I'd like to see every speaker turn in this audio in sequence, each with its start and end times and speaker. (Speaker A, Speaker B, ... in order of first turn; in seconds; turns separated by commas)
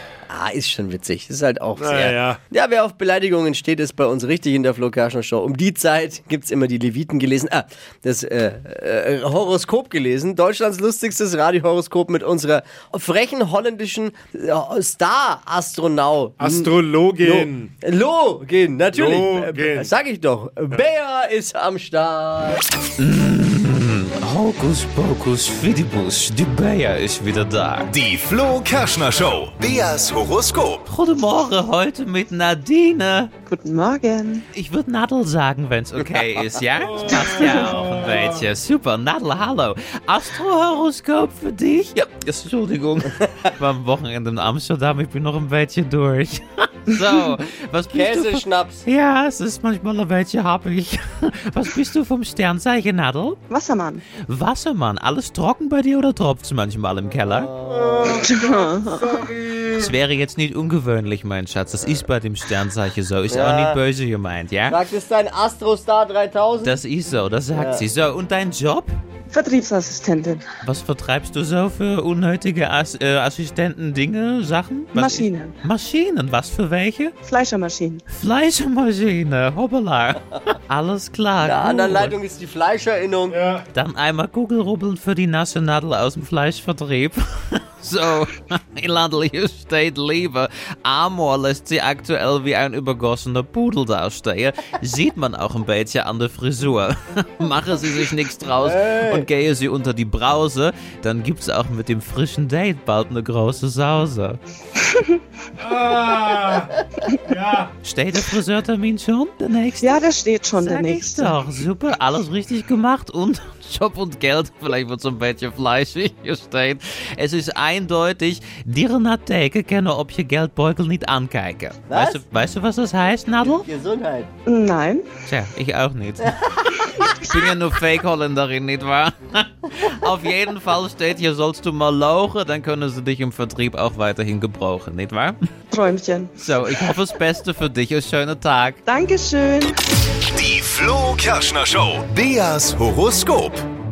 Speaker A: 0.3-22.6, Speaker B: 1.8-2.4, Speaker B: 16.4-17.7, Speaker B: 18.9-19.9, Speaker C: 23.0-27.9, Speaker D: 27.9-30.9, Speaker C: 30.9-33.3, Speaker E: 33.5-34.5, Speaker C: 34.5-53.4, Speaker B: 37.0-38.3, Speaker E: 37.1-37.8, Speaker A: 47.9-48.8, Speaker E: 53.5-54.0, Speaker C: 54.2-57.5, Speaker A: 57.3-58.3, Speaker B: 57.7-59.7, Speaker E: 58.1-59.3, Speaker C: 59.8-64.8, Speaker A: 63.3-63.8, Speaker A: 64.7-66.8, Speaker C: 66.6-68.9, Speaker A: 67.5-67.8, Speaker E: 69.3-70.5, Speaker C: 70.6-77.2, Speaker E: 75.0-75.5, Speaker E: 77.2-78.0, Speaker C: 78.1-82.2, Speaker A: 81.4-83.4, Speaker B: 83.3-83.7, Speaker C: 83.7-104.4, Speaker A: 98.6-99.3, Speaker E: 104.8-105.2, Speaker B: 105.6-106.7, Speaker B: 107.2-107.7, Speaker C: 107.8-123.7, Speaker E: 109.8-111.3, Speaker A: 121.9-122.2, Speaker A: 123.4-124.3, Speaker E: 124.5-125.0, Speaker C: 125.3-135.4, Speaker E: 135.7-136.3, Speaker C: 136.4-138.8, Speaker E: 138.9-139.7, Speaker D: 140.2-143.7